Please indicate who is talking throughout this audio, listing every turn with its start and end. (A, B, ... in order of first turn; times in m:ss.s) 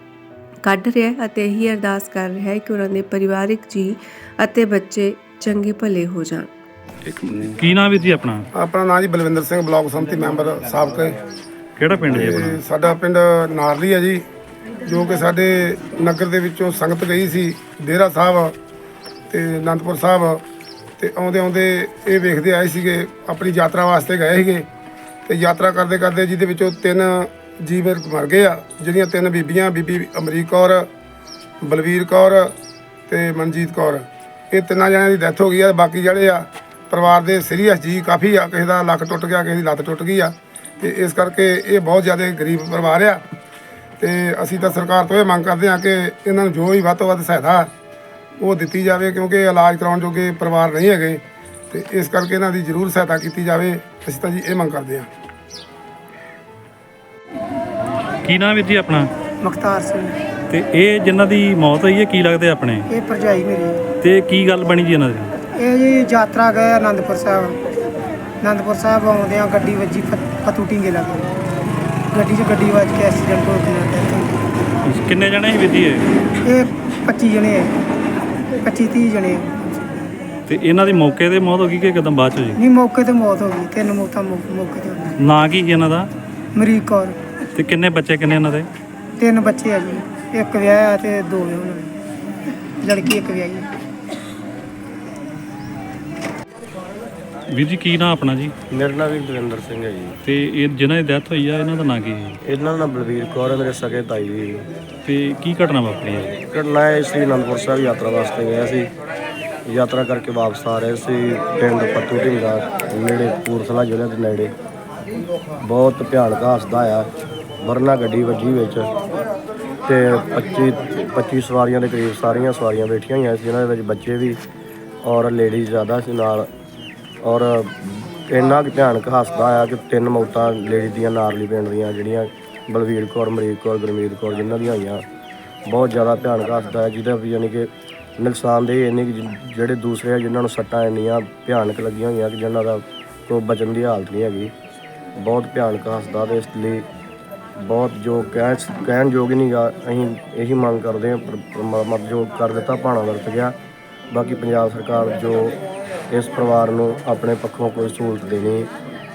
0:00.6-0:06.5 A
0:07.0-0:08.4 B
0:08.6-0:11.2 C
0:11.8-0:12.6 B
0:12.1-0:14.2 C
0:14.8-0:18.6 C
0:19.3-0:20.4 C
0:21.0-0:24.7 C
0:25.3-0:30.9 C
0:31.6-0:32.5 C
0:33.1-0:43.2 C
0:44.0-0:47.7 C
0:48.4-0:55.1 C
0:58.2-0:59.1 B
0:59.4-1:00.2 D
1:00.5-1:02.9 B
1:02.9-1:03.8 D
1:04.0-1:05.3 B
1:05.5-1:07.6 D
1:08.4-1:11.3 D
1:12.1-1:14.4 D
1:14.9-1:16.0 B
1:16.4-1:17.7 D
1:18.5-1:19.8 D
1:20.5-1:22.6 B
1:22.6-1:25.2 D
1:25.2-1:26.1 B
1:26.6-1:27.2 D
1:27.5-1:28.7 B
1:29.2-1:32.0 D
1:32.8-1:33.7 D
1:37.5-1:38.5 B
1:38.7-1:40.2 E
1:40.2-1:42.4 B
1:42.4-1:44.7 E
1:45.0-1:46.4 B
1:46.4-1:48.9 E
1:49.7-1:54.5 E
1:55.6-1:57.1 E
1:57.6-1:58.9 E
1:59.9-2:04.4 E
2:05.0-2:06.5 E
2:07.2-2:15.0 E
2:15.7-2:24.5 E
2:25.2-2:26.9 E
2:27.6-2:33.6 E
2:34.1-2:35.6 E
2:36.1-2:38.7 E